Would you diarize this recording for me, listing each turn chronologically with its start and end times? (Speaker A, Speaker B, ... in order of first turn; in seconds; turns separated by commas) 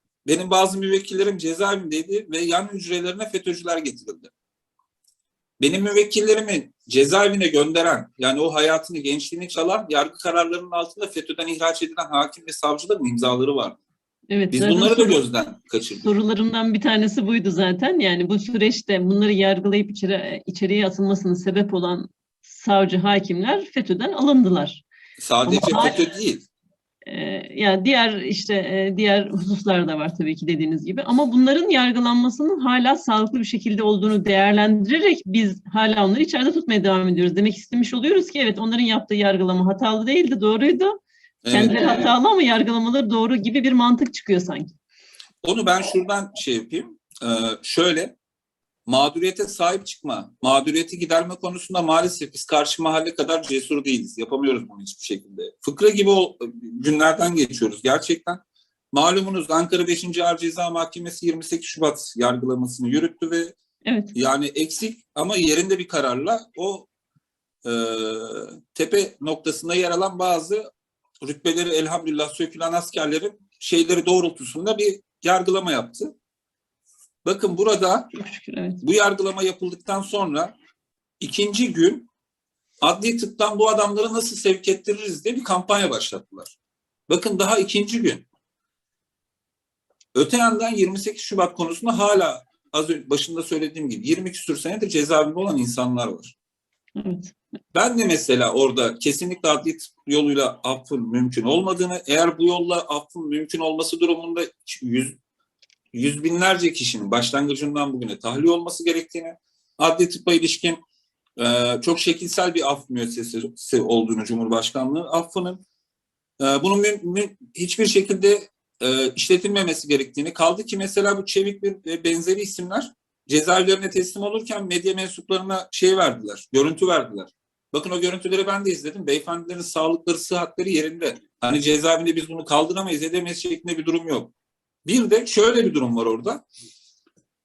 Speaker A: 0.2-4.3, Speaker A: 5.6-13.8, Speaker B: 14.3-15.2, Speaker A: 14.5-16.1, Speaker B: 16.0-24.8, Speaker A: 25.2-26.4, Speaker B: 25.4-26.0, Speaker B: 27.1-40.9, Speaker A: 41.4-42.1, Speaker B: 41.5-44.7, Speaker A: 45.4-48.1, Speaker A: 48.9-58.4, Speaker A: 58.9-63.5, Speaker B: 63.8-64.1, Speaker A: 64.1-66.9, Speaker A: 67.6-70.6, Speaker A: 71.2-76.1, Speaker A: 77.2-78.1, Speaker B: 78.1-78.8, Speaker A: 78.8-80.5, Speaker A: 81.2-82.1, Speaker A: 82.8-86.5, Speaker A: 87.1-88.2, Speaker A: 90.1-96.3, Speaker B: 97.0-97.3, Speaker A: 97.7-105.1, Speaker A: 105.9-110.8, Speaker A: 111.4-115.6, Speaker A: 116.4-134.3, Speaker A: 134.8-136.4